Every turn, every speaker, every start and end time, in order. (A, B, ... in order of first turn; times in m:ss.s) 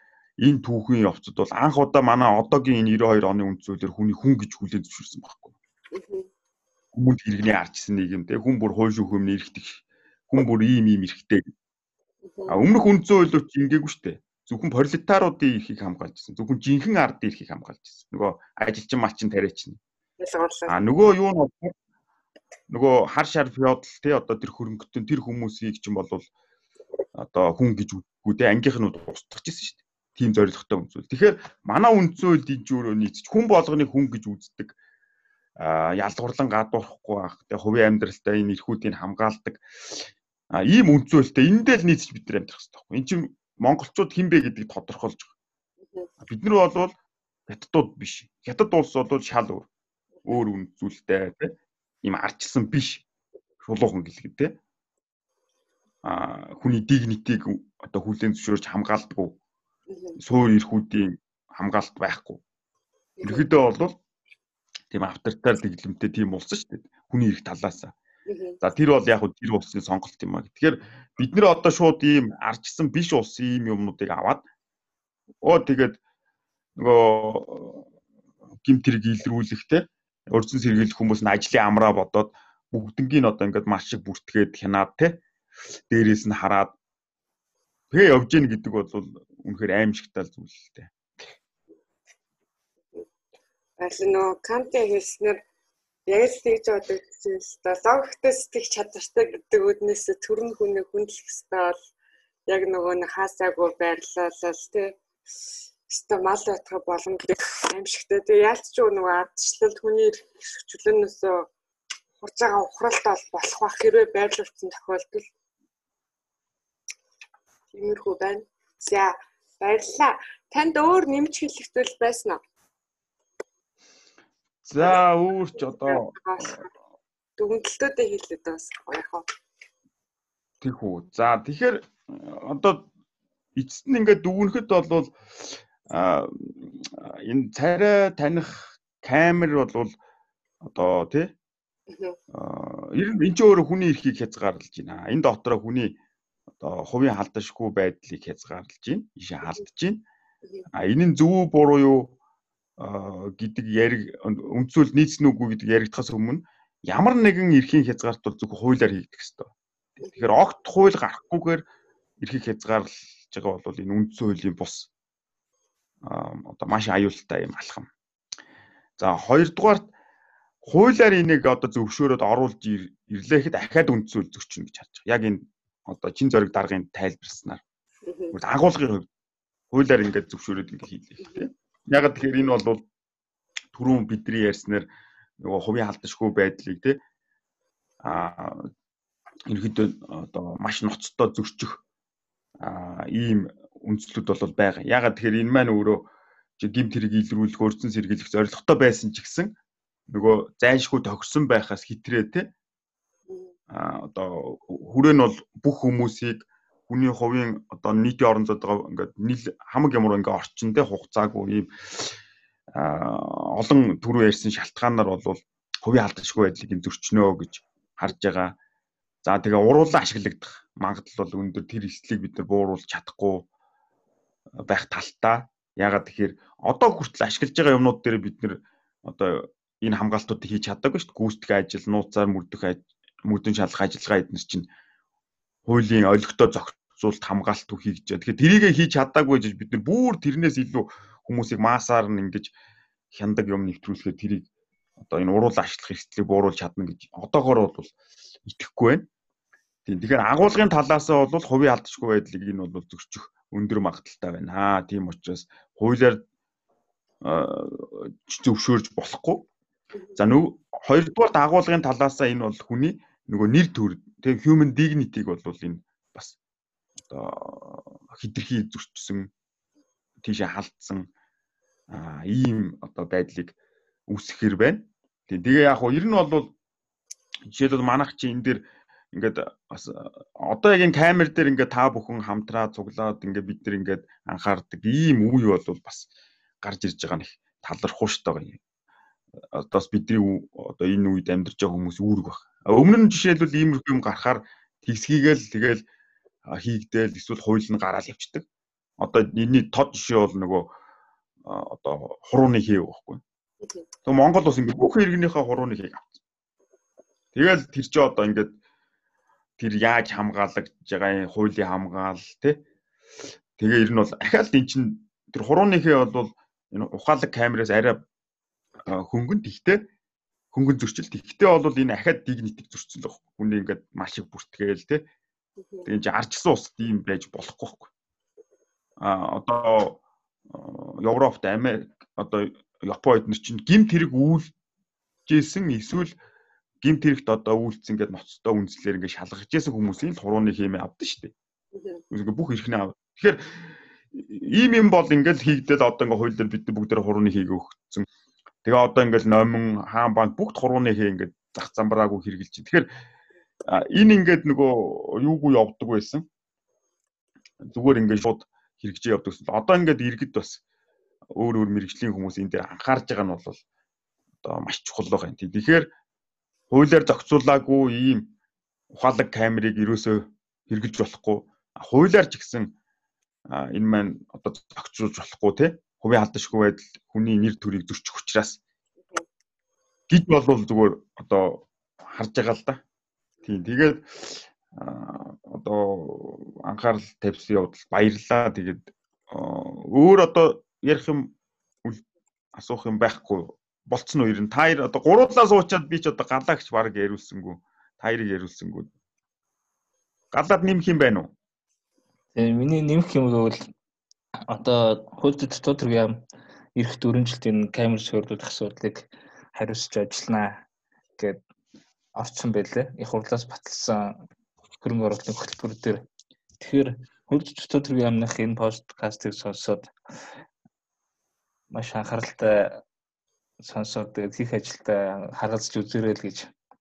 0:00.4-0:05.5 A
0:05.9-0:06.3 B
0:06.9-0:11.4 A
0:12.2-0:12.6 B
0:12.5-0:19.8 A
0:20.2-0:20.9 B
0:20.7-0:21.7 A
0:22.7-0:26.3 A
0:27.2-0:34.8 A
0:35.6-0:45.3 A
0:46.2-0:47.0 A
0:47.5-0:49.7 A
0:50.2-0:51.5 A
0:52.0-0:53.1 A
0:53.6-0:54.6 A
0:56.0-0:59.4 A
0:59.9-1:00.2 B
1:00.2-1:02.4 A
1:03.2-1:03.5 B
1:03.2-1:04.0 A
1:04.9-1:07.9 A
1:08.3-1:08.6 B
1:08.6-1:14.4 A
1:15.4-1:16.0 A
1:16.8-1:17.9 A
1:18.6-1:25.2 A
1:25.9-1:26.8 A
1:27.9-1:30.9 A
1:33.8-1:35.4 B
1:36.1-1:41.8 B
1:42.5-1:45.0 B
1:45.9-1:51.5 B
1:52.2-1:55.3 B
1:57.7-2:02.4 B
2:04.6-2:06.6 A
2:05.7-2:06.6 B
2:07.4-2:09.3 B
2:10.6-2:12.9 A
2:13.6-2:20.0 A
2:20.6-2:21.3 A
2:21.9-2:22.2 B
2:22.3-2:26.0 A
2:26.6-2:30.0 A
2:30.7-2:32.2 A
2:32.8-2:39.5 A
2:40.0-2:40.3 B
2:40.1-2:41.6 A
2:42.2-2:44.9 A
2:46.1-2:47.9 A
2:49.0-2:49.9 A
2:50.6-2:57.6 A
2:58.1-2:58.4 B
2:58.3-2:59.1 A
2:59.7-3:02.9 A
3:01.2-3:01.5 B
3:03.7-3:04.9 A
3:05.4-3:07.0 A
3:08.0-3:08.6 A
3:09.5-3:11.8 A
3:12.6-3:19.5 A
3:20.1-3:22.5 A
3:23.3-3:23.5 B
3:23.7-3:32.2 A
3:32.8-3:38.6 A
3:39.2-3:43.5 A
3:44.6-3:54.7 A
3:55.7-4:02.5 A
4:03.1-4:04.5 A
4:05.0-4:07.9 A
4:08.5-4:09.1 A
4:09.8-4:16.2 A
4:17.2-4:19.5 A
4:20.2-4:26.4 A
4:27.1-4:29.3 A
4:30.2-4:31.1 A
4:31.9-4:33.6 A
4:34.1-4:36.5 A
4:37.5-4:46.1 A
4:46.6-4:48.6 A
4:49.5-4:55.8 A
4:56.5-4:58.4 A
4:59.0-5:00.7 A
5:01.4-5:03.2 A
5:04.1-5:06.1 A
5:07.3-5:08.6 A
5:09.6-5:12.6 A
5:13.6-5:18.0 A
5:18.9-5:19.8 A
5:20.5-5:25.0 A
5:25.6-5:25.9 B
5:25.8-5:27.9 A
5:29.0-5:34.5 A
5:35.3-5:36.2 A
5:36.8-5:41.3 A
5:41.7-5:42.0 B
5:42.1-5:48.1 A
5:48.6-5:52.9 A
5:53.7-5:56.2 A
5:57.6-6:00.6 A
6:01.4-6:03.6 A
6:04.4-6:05.9 A
6:06.7-6:08.3 A
6:08.9-6:12.7 A
6:13.5-6:18.6 A
6:20.1-6:22.8 A
6:23.4-6:38.9 A
6:40.3-6:41.3 A
6:42.4-6:43.6 C
6:44.5-6:46.2 C
6:46.8-6:50.6 C
6:52.2-6:54.2 C
6:54.8-6:56.0 C
6:56.6-6:59.9 C
7:01.7-7:02.8 C
7:03.6-7:06.5 C